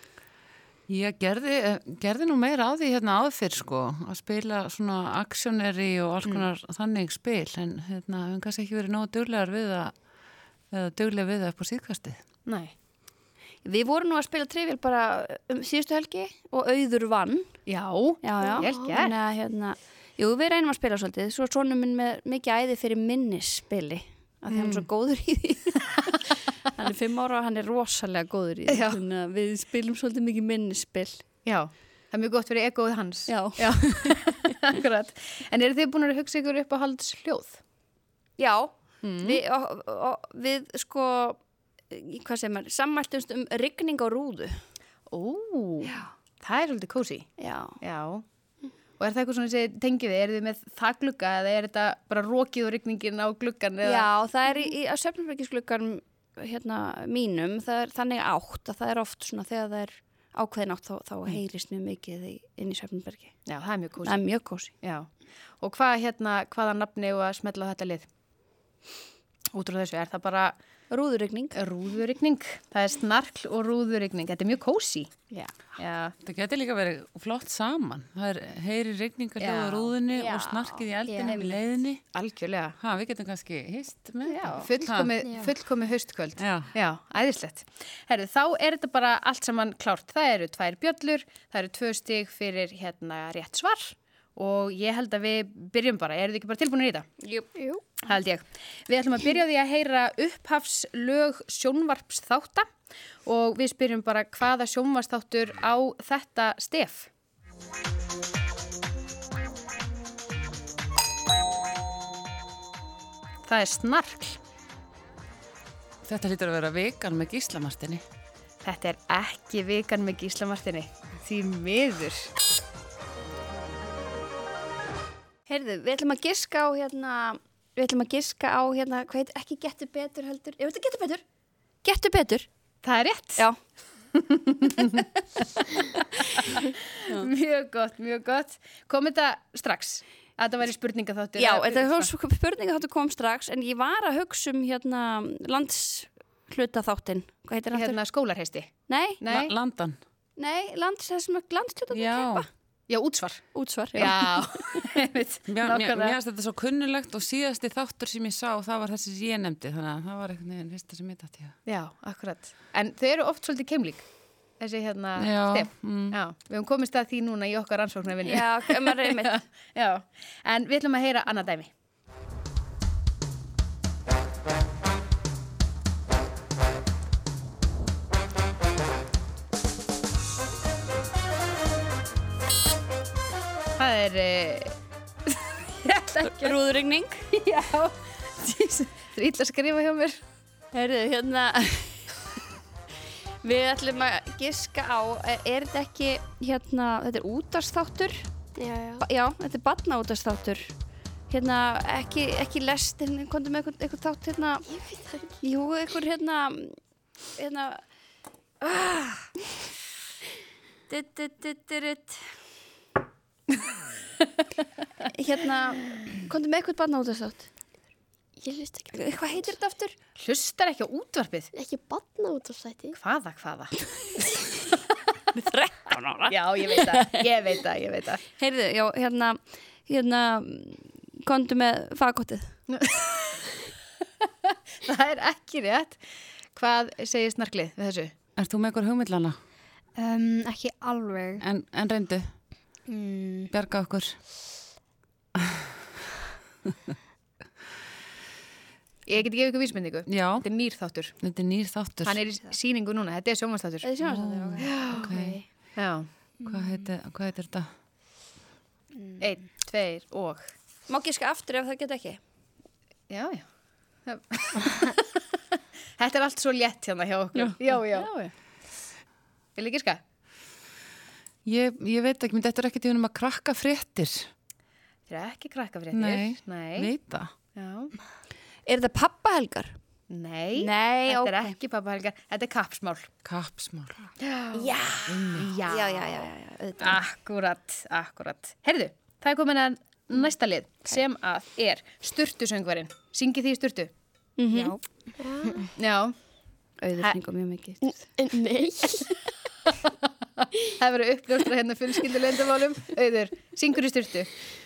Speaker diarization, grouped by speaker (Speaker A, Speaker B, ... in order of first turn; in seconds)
Speaker A: 0.9-9.9, 10.7-12.2, 76.2-82.0, 82.8-85.1, 86.4-86.7, 116.0-118.0, 149.3-150.0, 151.9-152.4, 155.5-161.6, 165.2-166.2, 238.4-239.4, 241.4-242.3, 243.5-244.2, 250.1-250.4, 251.2-252.2, 254.0-255.4, 256.4-257.7, 271.4-274.3, 275.9-277.3, 283.2-284.0, 285.1-285.5
Speaker B: 12.4-12.7, 17.7-19.1, 24.5-24.9, 28.7-29.0, 31.4-37.6, 39.0-39.4, 45.1-47.3, 47.8-48.2, 49.0-54.1, 63.5-64.2, 64.8-65.1, 65.6-68.1, 69.5-70.5, 71.5-75.1, 75.8-76.1, 79.4-79.9, 81.3-81.5, 82.1-82.8, 84.2-97.1, 98.0-102.7, 103.2-107.1, 113.5-114.4, 118.6-122.3, 132.8-133.4, 134.1-135.1, 137.1-142.1, 147.7-149.5, 152.9-156.2, 161.7-164.1, 164.6-171.7, 183.8-184.7, 185.3-186.6, 187.3-190.2, 220.2-221.5, 223.0-223.7, 226.3-228.2, 232.7-233.5, 234.4-236.0, 236.5-238.1, 249.1-251.2, 252.0-253.9, 254.6-256.1, 259.2-260.5, 263.1-263.4, 264.1-265.1, 266.0-268.3, 269.6-270.0, 275.1-276.9, 277.5-277.9, 280.1-283.1, 284.2-286.3, 286.8-293.9, 295.8-296.1, 300.4-304.3
Speaker C: 13.6-17.5, 18.2-25.9, 26.7-31.2, 33.3-34.5, 38.4-44.6, 47.4-47.7, 53.8-63.3, 64.0-64.7, 70.9-71.5, 80.1-81.3, 84.3-84.7, 97.2-97.5, 125.5-131.2, 131.8-132.5, 141.4-148.0, 148.9-149.2, 150.4-152.4, 153.5-154.7, 168.2-169.4, 186.2-187.2, 190.7-192.1, 193.4-198.3, 199.0-200.7, 201.3-204.6, 205.4-206.8, 207.4-207.8, 208.6-209.3, 210.9-212.2, 215.0-217.5, 218.9-219.9, 225.3-227.2, 228.4-232.5, 253.8-255.4, 260.9-262.2, 267.4-268.0, 278.6-279.7, 280.6-281.6, 284.5-285.0, 285.6-287.0, 294.4-294.8, 296.8-298.1
Speaker D: 18.4-18.9, 97.5-97.8, 198.6-199.0, 204.7-205.4, 218.4-219.6, 221.5-223.0, 295.2-295.6, 297.8-299.1
Speaker E: 81.1-81.4, 85.2-85.5, 239.9-241.4, 242.9-243.5, 294.5-294.8